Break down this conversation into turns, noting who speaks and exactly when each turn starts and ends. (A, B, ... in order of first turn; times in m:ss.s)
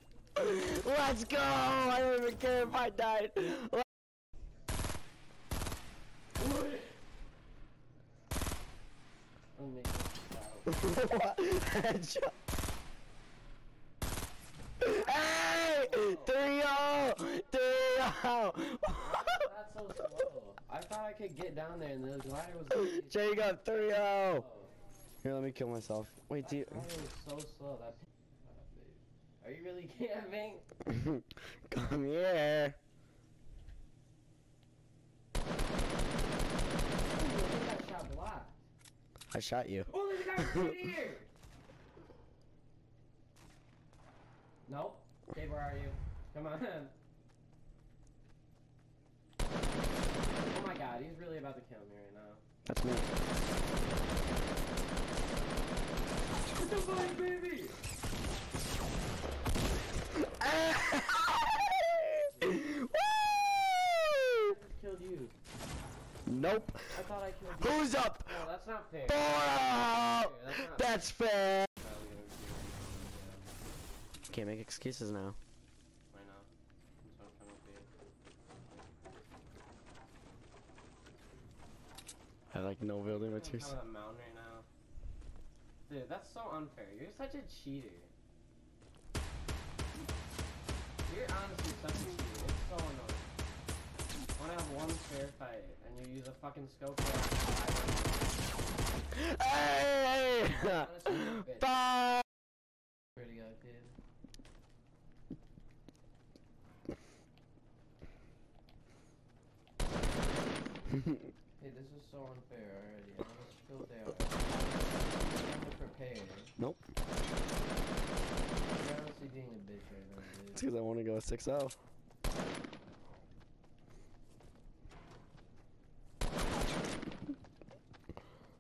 0:00.4-0:03.8 A
0:06.4-0:07.0 B
0:09.5-0:11.0 B
0:10.7-0:12.3 A
0:14.8-0:19.3 A
0:15.8-0:16.4 B
0:19.0-0:24.7 B
0:22.7-0:24.5 A
0:25.2-0:26.9 A
0:26.4-0:30.7 B
0:30.9-0:32.8 A
0:37.1-0:38.6 B
0:39.3-0:40.9 A
0:39.9-0:41.3 B
0:44.7-0:46.9 B
0:50.5-0:52.4 B
0:52.6-0:53.1 A
0:56.6-0:57.8 B
1:00.2-1:04.5 A
1:02.3-1:02.6 B
1:04.4-1:05.4 B
1:06.3-1:07.0 A
1:06.8-1:11.0 B
1:07.6-1:08.5 A
1:09.1-1:11.7 A
1:11.8-1:13.5 B
1:14.3-1:15.4 A
1:16.1-1:16.5 B
1:17.0-1:17.9 B
1:22.5-1:23.8 A
1:23.0-1:24.7 B
1:25.9-1:28.1 B
1:31.1-1:33.3 B
1:34.4-1:38.5 B
1:39.1-1:42.2 A
1:40.6-1:41.7 B
1:43.2-1:43.9 B
1:50.9-1:51.3 A
1:51.6-1:56.5 B
1:58.7-2:00.6 B
2:00.5-2:01.8 A